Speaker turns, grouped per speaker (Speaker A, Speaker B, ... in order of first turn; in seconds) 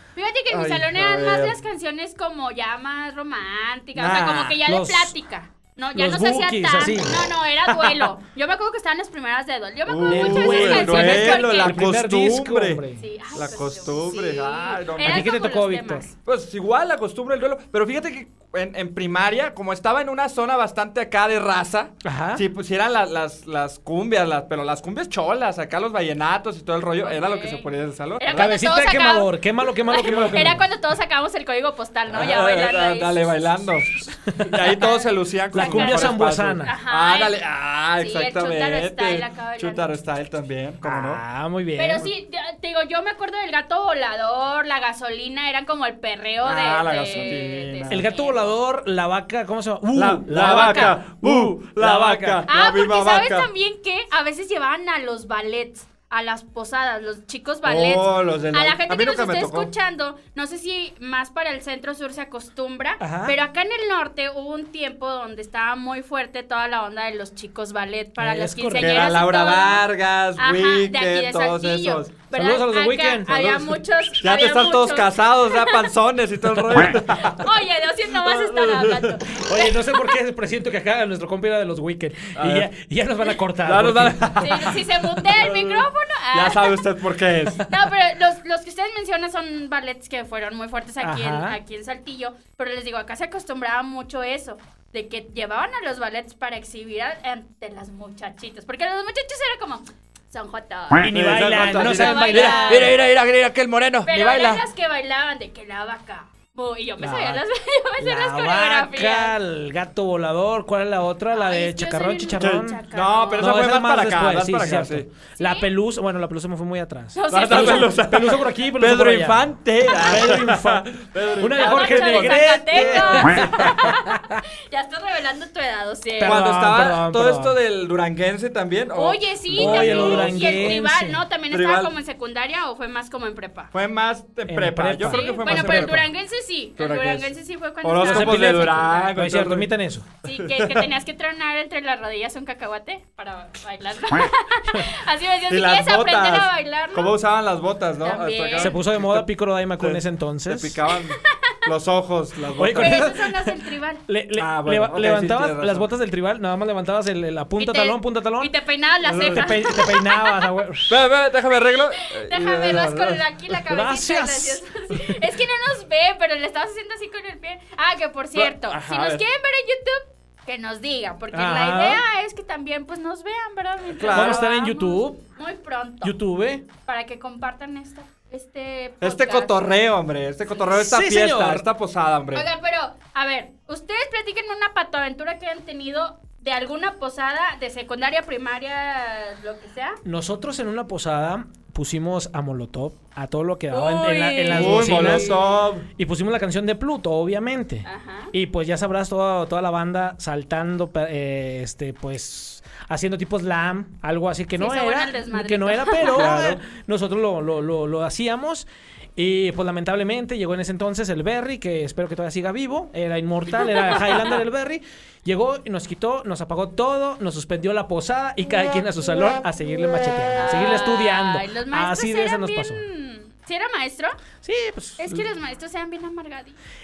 Speaker A: 0.2-11.7, 13.0-16.1, 27.0-27.7, 28.2-29.3, 29.9-33.5, 34.5-37.4, 38.0-39.9, 41.8-48.4, 52.5-69.8, 70.4-75.9, 77.3-80.0, 84.4-86.8, 87.6-103.0, 104.1-109.4, 111.3-113.5, 115.4-115.7, 117.2-118.0, 121.5-126.5, 128.9-133.7, 135.1-139.1, 140.2-147.2, 148.0-148.8, 152.7-154.1, 157.6-160.4, 162.0-176.2, 176.9-179.5, 182.3-190.0, 193.7-195.5, 197.8-198.3, 204.6-206.3, 220.3-224.2, 225.0-226.6
Speaker B: 0.5-1.6, 4.0-4.5, 9.9-12.8, 13.3-15.3, 16.2-28.8, 29.9-30.6, 32.1-33.9, 34.5-41.2, 46.4-48.0, 50.0-53.5, 57.7-59.7, 68.8-72.1, 73.3-77.5, 78.2-79.2, 82.3-82.7, 83.6-87.7, 101.0-104.7, 112.4-115.0, 117.3-123.8, 126.2-130.8, 131.5-131.9, 133.7-136.1, 136.8-137.3, 137.8-139.7, 140.3-140.9, 145.5-149.3, 149.8-153.1, 154.4-155.8, 159.1-159.6, 160.9-163.3, 168.3-169.2, 173.9-174.4, 179.0-182.5, 194.5-195.9, 206.0-206.6
Speaker C: 4.4-5.2, 6.0-8.1, 10.1-13.1, 15.0-16.1, 22.0-22.4, 28.3-30.6, 34.3-34.6, 35.5-36.7, 40.8-42.1, 47.9-52.4, 63.0-63.4, 68.2-69.1, 72.3-73.5, 76.6-77.2, 79.3-84.8, 91.0-91.6, 101.0-103.0, 107.0-107.4, 108.0-112.8, 113.4-119.5, 120.0-124.4, 126.2-127.5, 129.5-131.2, 134.5-136.1, 138.0-140.1, 148.6-150.8, 152.6-153.6, 154.1-158.5, 159.2-161.0, 163.7-165.2, 171.3-172.0, 174.1-175.2, 176.0-176.7, 180.7-181.7, 190.1-195.4, 196.0-222.8, 224.4-225.3